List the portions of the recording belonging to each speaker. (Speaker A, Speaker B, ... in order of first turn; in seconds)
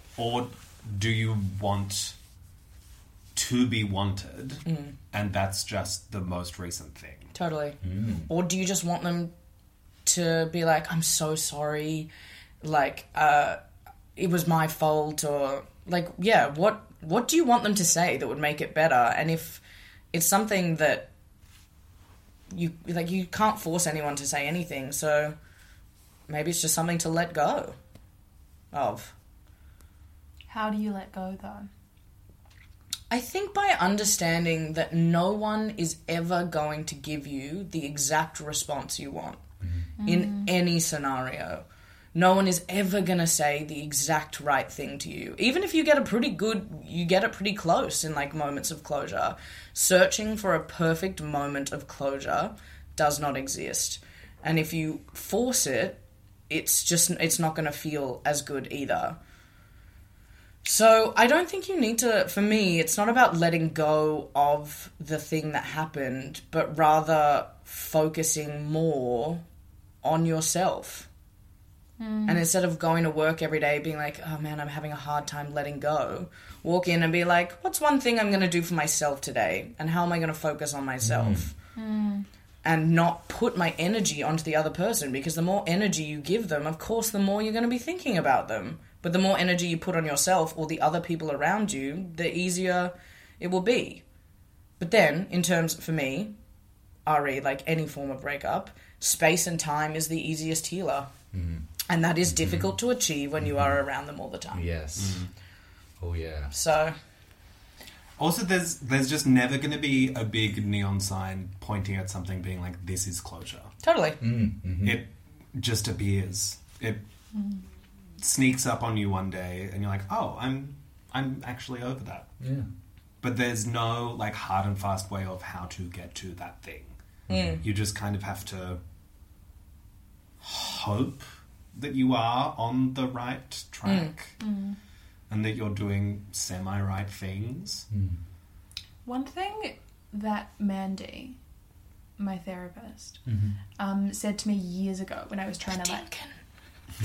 Speaker A: 0.2-2.1, 3.4-7.3, 105.0-105.3, 108.2-113.7, 114.8-117.0, 118.2-122.3, 123.2-126.9, 127.6-128.8, 130.4-134.3, 135.3-137.9
Speaker B: 4.7-4.9, 7.3-7.8, 8.3-9.3, 10.1-12.1, 12.6-13.6, 14.2-21.1, 22.5-25.4, 26.3-27.8, 28.7-29.1, 33.1-39.4, 40.0-59.2, 60.6-69.4, 70.0-71.1, 72.3-81.5, 82.6-94.0, 94.8-96.3, 97.0-101.1, 101.9-104.6, 106.5-107.0, 113.8-114.2, 127.3-127.6, 133.8-134.1, 145.7-146.3
Speaker C: 7.8-8.3, 81.0-81.5, 101.3-101.7, 102.3-102.7, 103.4-103.8, 104.5-105.2, 106.0-106.5, 114.2-115.0, 122.4-122.7, 127.3-127.6, 137.9-138.2, 143.3-143.6
Speaker D: 30.5-31.7, 40.0-40.5, 72.0-72.4, 81.8-82.3, 134.4-134.8, 139.1-141.4, 142.2-143.2, 143.8-146.1